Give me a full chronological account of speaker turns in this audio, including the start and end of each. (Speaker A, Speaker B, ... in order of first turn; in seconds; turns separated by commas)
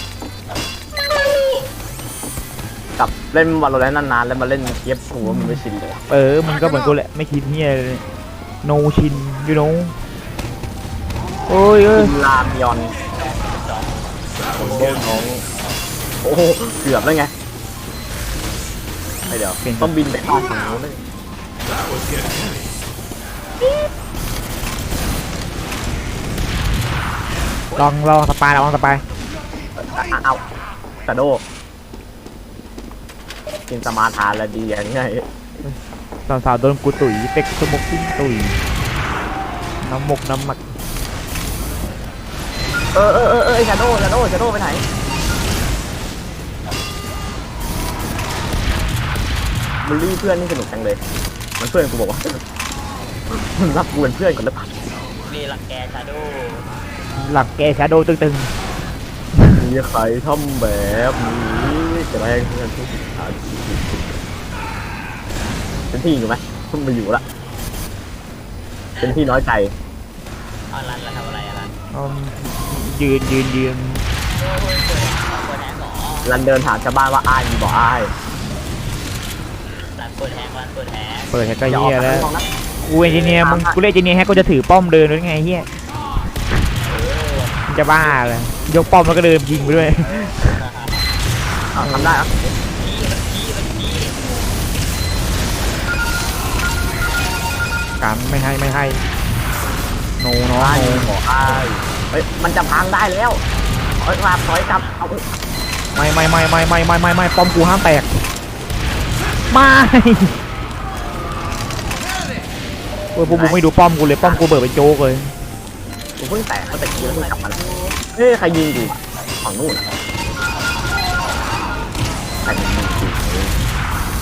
Speaker A: 0.9-1.7, Speaker B: 3.0-6.0, Speaker C: 6.1-8.0, Speaker C: 8.6-9.9, Speaker C: 11.5-12.1, Speaker B: 11.9-12.9, Speaker A: 13.1-15.1, Speaker B: 14.6-15.4, Speaker B: 16.2-17.3, Speaker B: 19.3-21.0, Speaker C: 19.6-19.9, Speaker C: 27.7-29.0, Speaker B: 29.8-30.4, Speaker B: 31.1-31.4, Speaker B: 33.7-35.3, Speaker C: 35.6-38.6, Speaker C: 39.8-40.7, Speaker B: 42.9-44.8, Speaker B: 49.8-51.0, Speaker B: 51.6-52.4, Speaker B: 53.3-54.7, Speaker A: 55.2-56.7, Speaker C: 57.2-58.5, Speaker B: 59.5-64.2, Speaker B: 65.9-67.2, Speaker B: 69.0-69.7, Speaker A: 70.7-71.8, Speaker C: 71.9-74.0, Speaker A: 74.3-76.3, Speaker B: 76.2-78.1, Speaker A: 80.0-81.3, Speaker C: 81.3-82.3, Speaker B: 81.7-82.5, Speaker C: 82.8-85.7, Speaker B: 83.0-83.8, Speaker A: 86.8-87.6, Speaker C: 87.7-90.5, Speaker A: 90.5-91.1, Speaker B: 91.7-92.3, Speaker C: 91.8-92.1, Speaker A: 92.7-94.6, Speaker C: 98.0-99.0, Speaker C: 100.2-101.1, Speaker B: 100.6-103.4, Speaker B: 104.0-105.2, Speaker C: 106.0-108.1, Speaker C: 109.5-110.3, Speaker C: 113.2-115.3, Speaker B: 113.2-113.6, Speaker B: 116.2-117.6, Speaker A: 116.7-118.0, Speaker B: 118.1-119.8, Speaker B: 122.5-123.5